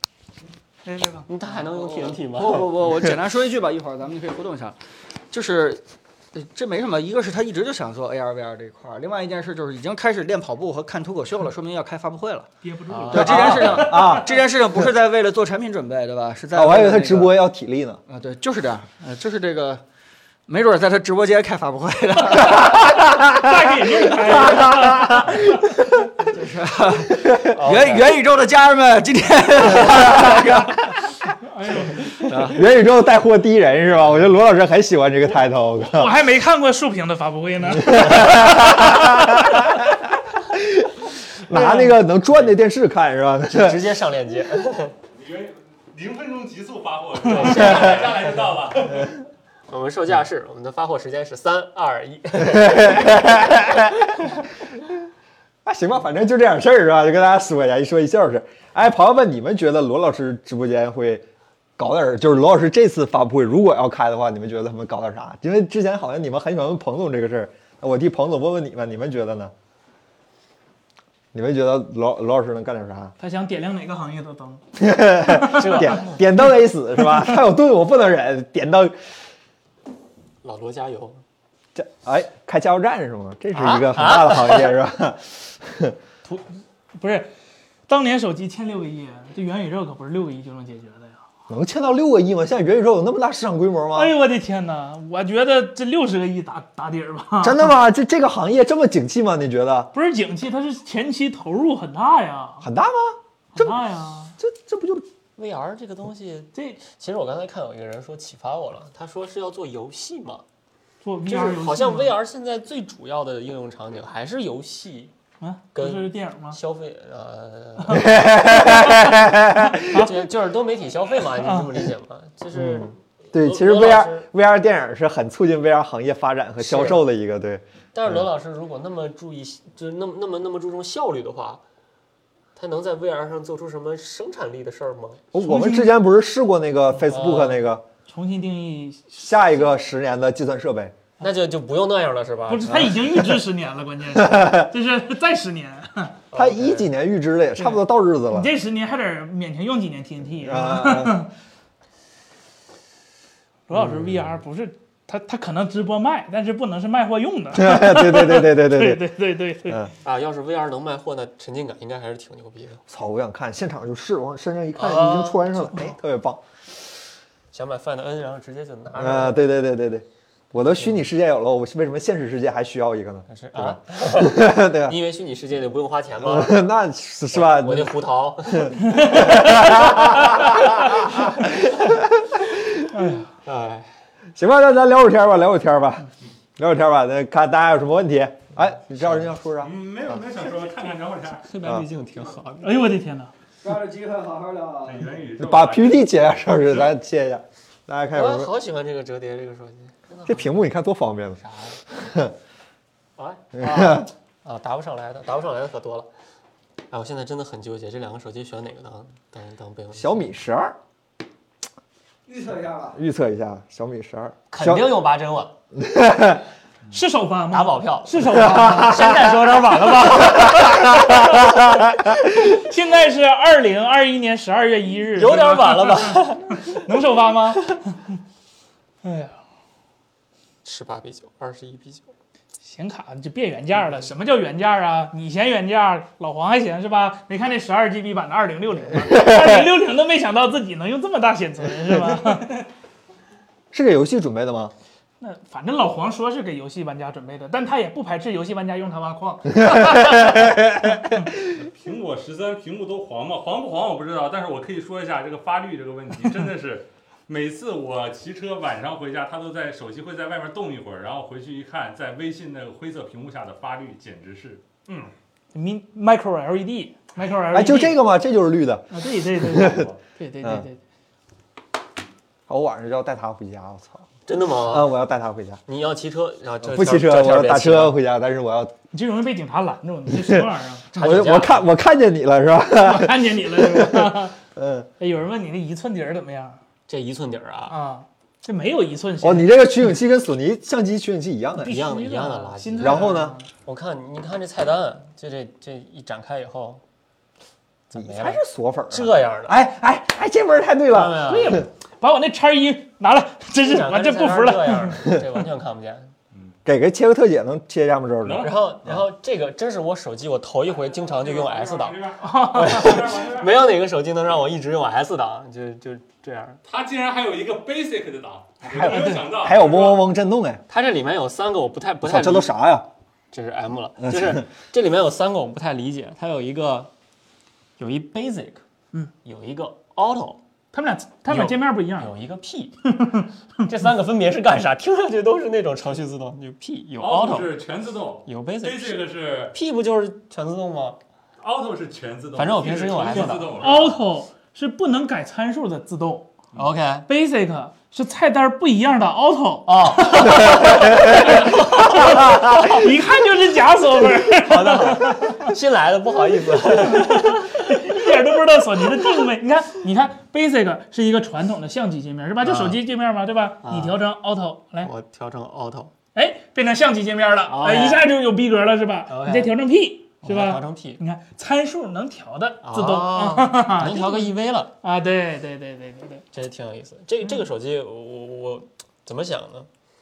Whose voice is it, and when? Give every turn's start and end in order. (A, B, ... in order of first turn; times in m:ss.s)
0:00.8-0:01.3 A
0:01.3-0:02.7 B
0:01.8-0:04.8 C
0:05.3-0:05.8 C
0:06.4-0:12.5 C
0:12.6-0:14.3 A
0:12.9-0:13.5 B
0:13.1-0:17.3 C
0:13.1-0:14.3 D
0:16.6-0:18.0 D
0:18.1-0:19.8 C
0:20.5-0:22.8 C
0:22.4-0:25.6 A
0:22.6-0:23.5 D
0:24.1-0:25.8 D
0:26.3-0:30.7 C
0:27.1-0:27.6 D
0:27.5-0:28.1 B
0:29.8-0:30.7 D
0:31.5-0:32.4 A
0:32.3-0:36.1 D
0:35.8-0:39.2 A
0:37.8-0:39.8 D
0:40.5-0:43.8 D
0:41.5-0:42.0 A
0:43.5-0:45.0 B
0:45.2-0:49.1 E
0:47.2-0:48.4 B
0:47.4-0:48.2 D
0:49.7-0:53.5 B
0:52.5-0:54.0 D
0:55.6-1:01.2 D
1:01.8-1:09.5 D
1:11.3-1:13.1 D
1:13.2-1:14.6 A
1:14.8-1:19.0 D
1:15.2-1:16.1 A
1:15.4-1:16.2 B
1:20.4-1:21.2 B
1:21.8-1:26.0 D
1:23.6-1:24.8 B
1:27.0-1:27.3 A
1:27.9-1:31.2 A
1:31.5-1:34.1 D
1:33.9-1:37.7 A
1:37.4-1:39.9 D
1:39.9-1:42.7 A
1:42.6-1:43.8 D
1:43.6-1:44.4 A
1:44.4-1:45.0 D
1:45.4-1:50.4 B
1:46.6-1:46.8 A
1:51.0-1:52.2 A
1:51.3-1:55.1 B
1:55.4-1:56.6 A
1:55.7-1:58.2 B
1:57.8-2:00.1 A
1:57.9-2:00.0 D
1:59.9-2:04.3 B
2:01.4-2:01.8 A
2:02.5-2:08.1 D
2:06.6-2:07.0 B
2:07.9-2:11.6 B
2:12.6-2:15.2 B
2:15.3-2:17.8 D
2:15.4-2:15.9 A
2:17.0-2:17.6 B
2:18.1-2:19.7 A
2:19.2-2:20.9 D
2:21.2-2:22.9 B
2:22.5-2:26.2 A
2:22.7-2:23.4 D
2:24.2-2:24.7 D
2:26.3-2:26.9 B
2:26.3-2:28.5 D
2:27.6-2:31.3 A
2:30.4-2:31.2 D
2:33.7-2:39.9 A
2:33.7-2:34.4 D
2:37.5-2:39.0 D
2:40.0-2:42.8 B
2:42.9-2:46.4 D
2:44.8-2:45.8 B
2:47.5-2:49.4 B
2:49.0-2:55.0 D
2:50.7-2:51.0 B
2:53.3-2:56.6 B
2:56.2-2:58.0 D
2:57.3-2:59.5 B
2:58.5-3:02.9 D
3:02.9-3:03.3 A
3:03.4-3:03.9 B
3:04.4-3:09.7 D
3:09.6-3:11.5 E
3:11.4-3:12.8 B
3:12.6-3:13.3 A
3:13.6-3:15.1 C
3:14.8-3:16.1 E
3:15.4-3:18.5 D
3:18.1-3:20.6 B
3:20.3-3:22.3 D
3:21.4-3:21.8 B
3:23.2-3:26.1 B
3:23.6-3:24.1 D
3:26.9-3:30.3 B
3:30.0-3:30.8 D
3:32.3-3:32.9 C
3:32.9-3:34.9 D
3:34.5-3:35.5 B
3:35.7-3:36.4 D
3:36.9-3:39.3 A
3:37.5-3:41.2 B
3:38.3-3:39.1 D
3:40.0-3:40.4 A
3:40.6-3:41.6 D
3:42.4-3:48.0 A
3:45.2-3:46.9 B
3:49.0-3:49.4 A
3:50.6-3:52.1 B
3:52.6-4:02.7 A
4:03.7-4:04.7 D
4:05.2-4:10.5 A
4:09.6-4:11.1 D
4:11.6-4:25.1 E
4:25.5-4:28.0 A
4:27.5-4:29.9 D
4:28.9-4:30.8 A
4:32.5-4:34.0 D
4:34.3-4:34.9 B
4:34.7-4:35.6 D
4:35.7-4:38.0 B
4:36.6-4:38.7 D
4:38.9-4:40.9 A
4:40.1-4:40.4 D
4:40.9-4:41.7 B
4:41.0-4:44.9 D
4:42.7-4:44.4 A
4:45.0-4:46.6 A
4:46.9-4:47.8 B
4:47.7-4:49.5 A
4:49.2-4:51.8 D
4:51.6-4:53.5 A
4:51.6-4:56.8 B
4:52.8-4:53.4 D
4:57.9-4:59.6 B
4:58.0-5:01.6 D
5:00.9-5:01.6 B
5:01.2-5:05.0 A
5:03.6-5:06.1 B
5:06.6-5:09.0 D
5:08.2-5:08.5 E
5:08.4-5:16.6 B
5:10.7-5:13.6 E
5:12.2-5:13.1 A
5:16.7-5:20.0 E
5:18.7-5:20.6 D
5:18.8-5:19.2 A
5:20.7-5:22.5 B
5:22.0-5:22.9 D
5:23.3-5:26.9 B
5:24.0-5:24.4 D
5:27.8-5:28.6 B
5:29.2-5:30.4 B
5:30.7-5:32.1 A
5:31.3-5:32.8 B
5:32.8-5:33.3 A
5:33.7-5:37.6 B
5:37.0-5:39.6 E
5:38.2-5:41.0 B
5:41.4-5:44.0 E
5:42.4-5:43.9 B
5:43.1-5:46.3 A
5:46.6-5:47.1 B
5:47.1-5:55.5 A
5:49.7-5:52.8 B
5:54.4-5:58.1 B
5:56.8-6:04.9 A
6:02.4-6:02.8 B
6:03.6-6:04.0 B
6:04.8-6:05.9 B
6:06.2-6:16.2 A
6:07.5-6:08.1 B
6:09.1-6:09.5 B
6:10.2-6:11.0 B
6:12.6-6:14.8 B
6:16.3-6:19.7 B